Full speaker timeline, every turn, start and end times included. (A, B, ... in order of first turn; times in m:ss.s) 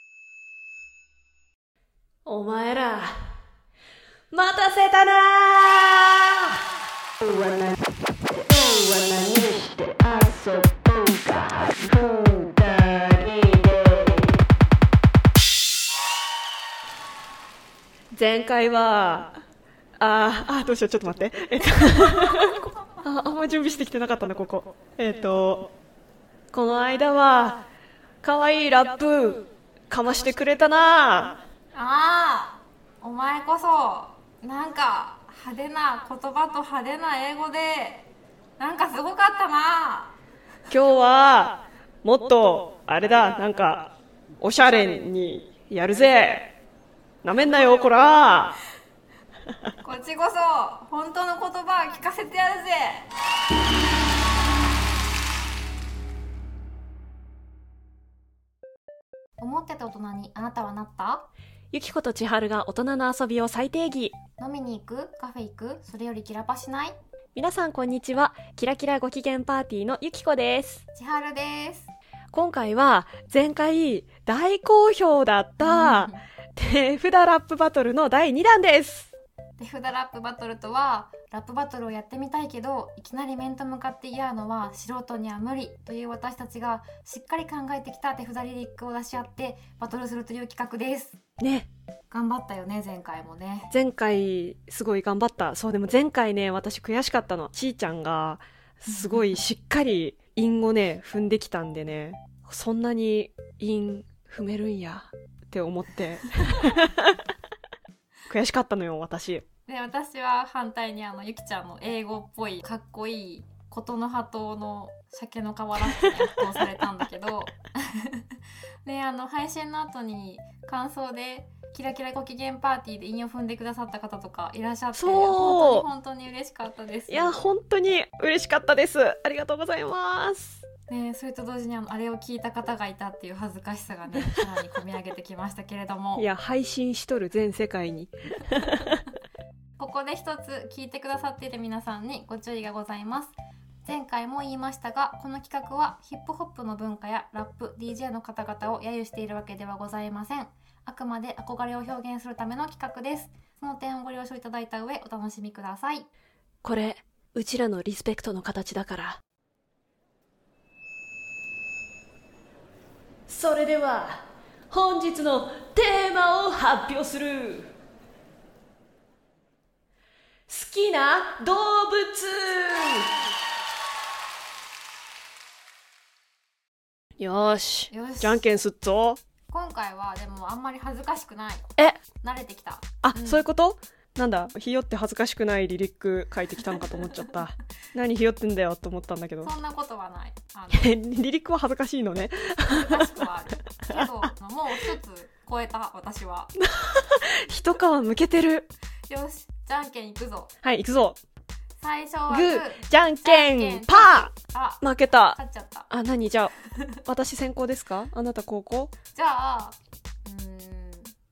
0:02.2-0:03.3 A
0:04.3-0:06.6 A
0:07.2-0:07.8 A
0:08.3-0:14.4 A
0:18.1-0:19.4 A
0:20.0-0:25.7 A
0:26.5-0:27.6 A
0:28.2-0:31.4 A
0:31.7-0:38.1 B
0:38.6-0:40.2 B
0:40.7-0:46.5 A
0:47.2-0:48.6 A
0:49.8-0:53.1 B
0:59.4-1:01.3 B
1:01.7-1:04.2 A
1:04.4-1:07.0 B
1:07.4-1:10.8 A
1:10.9-1:11.9 B
1:12.3-1:19.1 A
1:15.6-1:16.2 B
1:19.6-1:31.2 B
1:31.4-1:31.7 A
1:32.1-1:33.7 B
1:33.7-1:47.2 A
1:38.9-1:39.4 B
1:48.3-1:49.4 A
1:49.7-1:58.2 B
1:58.8-2:07.4 B
2:04.9-2:05.9 A
2:07.1-2:10.6 A
2:10.9-2:16.3 B
2:16.2-2:19.0 A
2:19.8-2:36.1 B
2:36.6-2:39.2 A
2:43.3-2:47.7 A
2:50.5-2:53.1 A
2:57.2-2:59.2 A
2:57.9-2:58.5 B
2:59.5-3:01.7 B
3:02.2-3:03.5 B
3:03.0-3:09.5 A
3:09.4-3:10.9 B
3:10.7-3:13.2 A
3:12.7-3:16.5 B
3:13.8-3:14.3 A
3:16.6-3:18.7 A
3:19.1-3:20.5 B
3:20.6-3:21.2 A
3:21.8-3:25.9 B
3:22.3-3:25.4 A
3:25.9-3:26.6 A
3:27.1-3:28.9 A
3:29.1-3:31.1 B